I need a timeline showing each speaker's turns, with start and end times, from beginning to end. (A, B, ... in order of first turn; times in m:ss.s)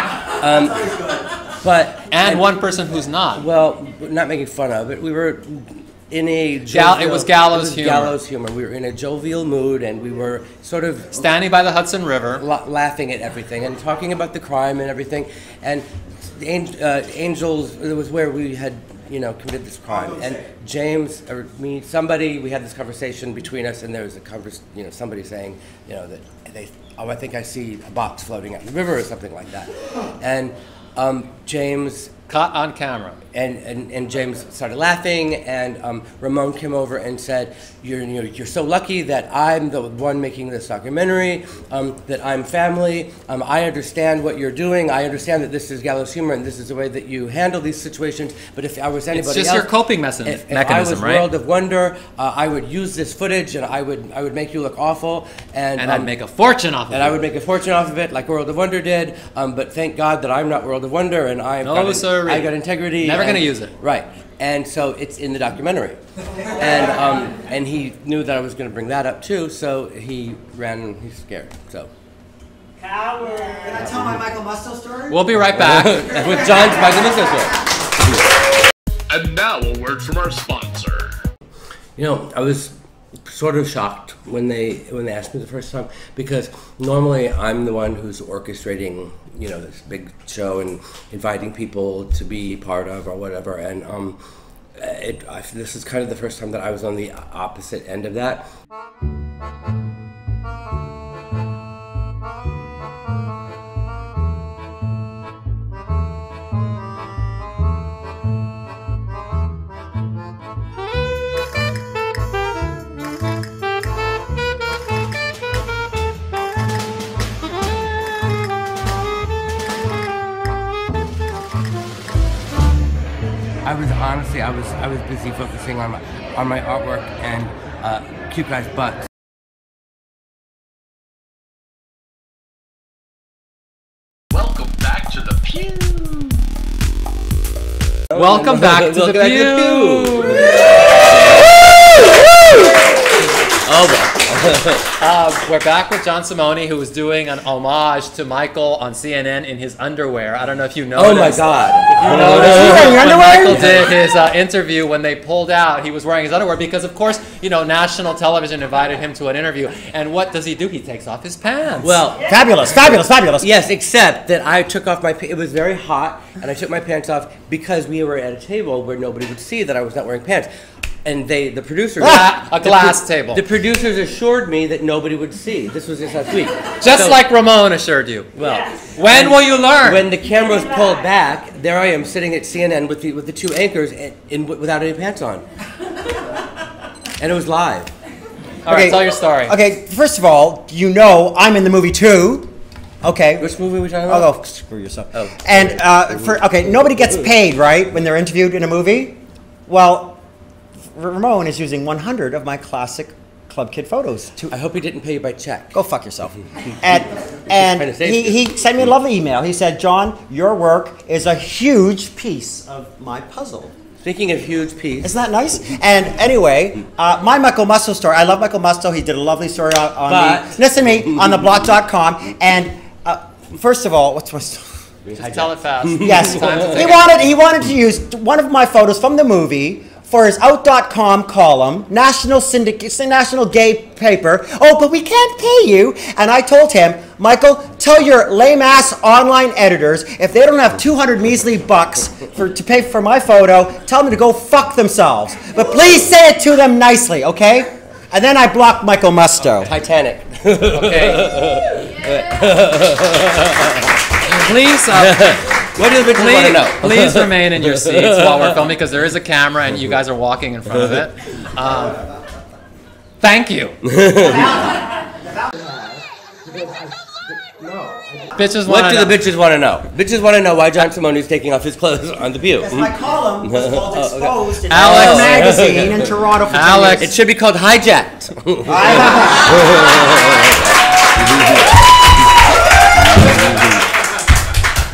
0:00.3-0:02.5 A
0:02.1-0:03.5 B
0:03.4-0:11.2 A
0:06.7-0:08.2 B
0:11.1-0:12.4 B
0:12.4-0:32.1 A
0:32.3-0:33.2 B
0:33.3-0:49.7 A
0:49.1-0:51.3 B
0:50.2-0:56.1 A
0:55.8-0:57.2 B
0:56.9-1:06.0 A
1:01.6-1:03.8 B
1:06.5-1:11.9 A
1:12.8-1:15.2 C
1:15.1-1:16.2 B
1:15.5-1:17.6 A
1:16.2-1:17.0 C
1:19.1-1:21.2 D
1:22.0-1:22.8 A
1:23.3-1:34.2 A
1:34.8-1:38.5 A
2:03.6-2:09.0 A
2:14.3-2:16.1 D
2:18.1-2:20.5 B
2:18.2-2:20.6 A
2:23.6-2:24.9 A
2:25.0-2:42.0 B
2:31.0-2:33.9 A
2:32.1-2:33.7 C
2:41.8-2:42.3 A
2:42.2-2:43.5 C
2:43.4-2:50.5 A
2:51.0-2:57.2 A
2:52.0-2:53.4 B
2:56.8-2:58.3 B
2:58.4-3:05.4 A
2:58.8-3:00.1 B
3:07.2-3:07.9 A
3:08.6-3:09.6 B
3:08.7-3:12.5 C
3:13.0-3:13.5 C
3:13.4-3:14.3 A
3:14.0-3:20.2 C
3:15.1-3:17.3 A
3:20.9-3:24.5 C
3:24.5-3:25.8 A
3:25.7-3:33.7 C
3:27.6-3:28.9 A
3:34.0-3:35.1 A
3:35.0-3:44.7 C
3:40.1-3:40.6 A
3:45.0-3:47.0 A
3:45.2-3:47.3 B
3:45.9-4:09.7 C
4:09.6-4:13.9 A
4:10.7-4:11.3 B
4:14.2-4:22.0 B
4:14.9-4:18.7 A
4:23.2-4:23.8 B
4:23.9-4:24.6 A
4:24.2-4:25.7 C
4:26.5-4:36.1 A
4:28.3-4:29.2 B
4:32.6-4:37.1 C
4:34.7-4:36.0 B
4:36.5-4:37.1 B
4:37.0-4:40.4 A
4:38.7-4:39.6 C